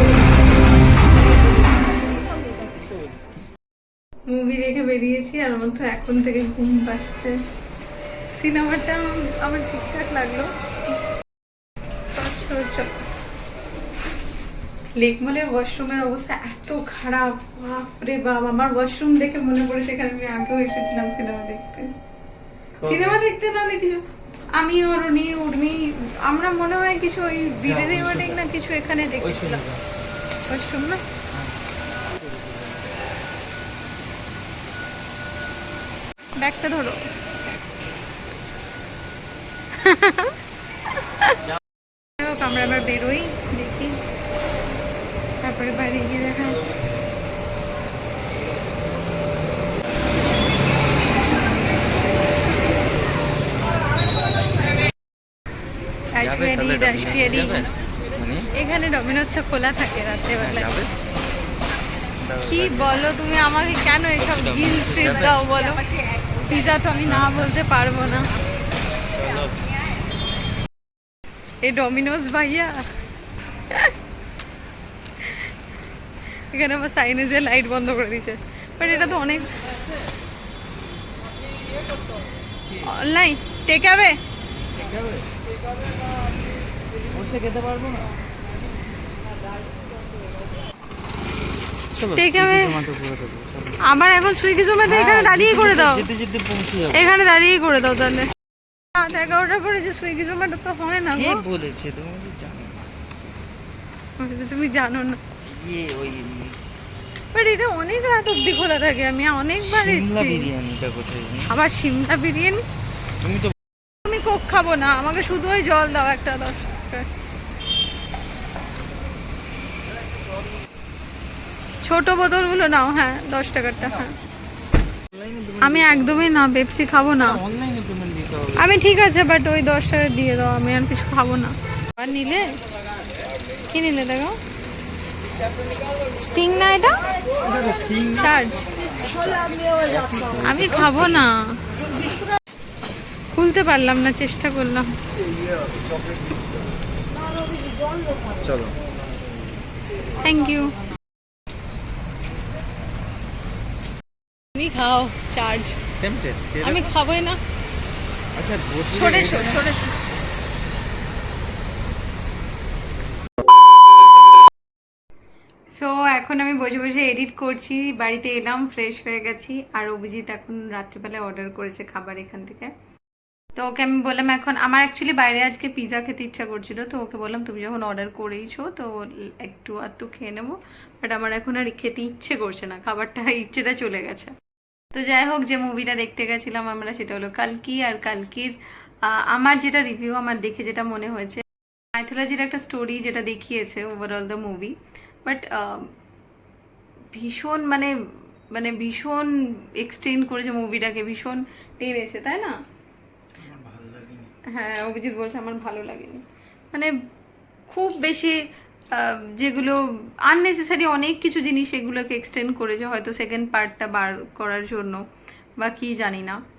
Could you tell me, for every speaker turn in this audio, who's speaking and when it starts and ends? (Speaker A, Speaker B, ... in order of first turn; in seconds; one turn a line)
Speaker A: 4.3-7.3
Speaker A: 8.3-10.5
Speaker A: 12.1-13.0
Speaker A: 14.9-21.9
Speaker B: 22.8-23.2
Speaker A: 22.8-29.6
Speaker B: 27.6-28.4
Speaker B: 29.2-29.8
Speaker A: 30.5-31.0
Speaker A: 36.4-37.0
Speaker A: 39.7-40.4
Speaker A: 41.0-41.4
Speaker A: 42.2-44.0
Speaker A: 45.4-46.8
Speaker A: 56.1-57.7
Speaker B: 56.2-58.5
Speaker A: 58.5-60.7
Speaker B: 60.4-61.0
Speaker B: 62.2-63.0
Speaker A: 62.4-65.8
Speaker B: 64.2-65.4
Speaker A: 66.3-68.3
Speaker B: 67.1-67.4
Speaker B: 69.1-69.6
Speaker A: 71.6-72.8
Speaker A: 75.2-75.5
Speaker A: 76.5-79.5
Speaker A: 82.8-84.2
Speaker B: 87.1-88.1
Speaker B: 92.0-93.8
Speaker A: 92.1-92.8
Speaker A: 93.8-96.0
Speaker B: 94.8-97.1
Speaker A: 96.9-98.3
Speaker A: 98.9-101.4
Speaker B: 101.1-103.5
Speaker A: 104.2-105.2
Speaker B: 105.4-106.6
Speaker A: 107.3-110.5
Speaker B: 109.6-111.5
Speaker A: 111.5-112.6
Speaker B: 113.2-113.5
Speaker A: 114.0-117.1
Speaker A: 121.8-124.1
Speaker B: 125.1-126.3
Speaker A: 125.6-127.4
Speaker B: 127.2-128.7
Speaker A: 128.6-132.6
Speaker A: 133.7-134.4
Speaker A: 136.2-137.1
Speaker B: 137.5-138.2
Speaker A: 138.1-138.7
Speaker B: 139.2-141.2
Speaker A: 140.4-141.6
Speaker A: 143.3-144.9
Speaker B: 148.3-148.8
Speaker A: 150.2-150.8
Speaker A: 154.5-155.8
Speaker B: 155.9-156.8
Speaker A: 156.6-157.4
Speaker B: 158.3-159.6
Speaker A: 158.9-159.9
Speaker A: 165.7-172.7
Speaker A: 173.5-184.3
Speaker A: 184.9-195.9
Speaker A: 197.1-197.9
Speaker A: 198.5-202.6
Speaker B: 203.4-204.3
Speaker A: 204.5-206.9
Speaker A: 207.7-208.4
Speaker A: 208.9-215.0
Speaker A: 215.6-216.4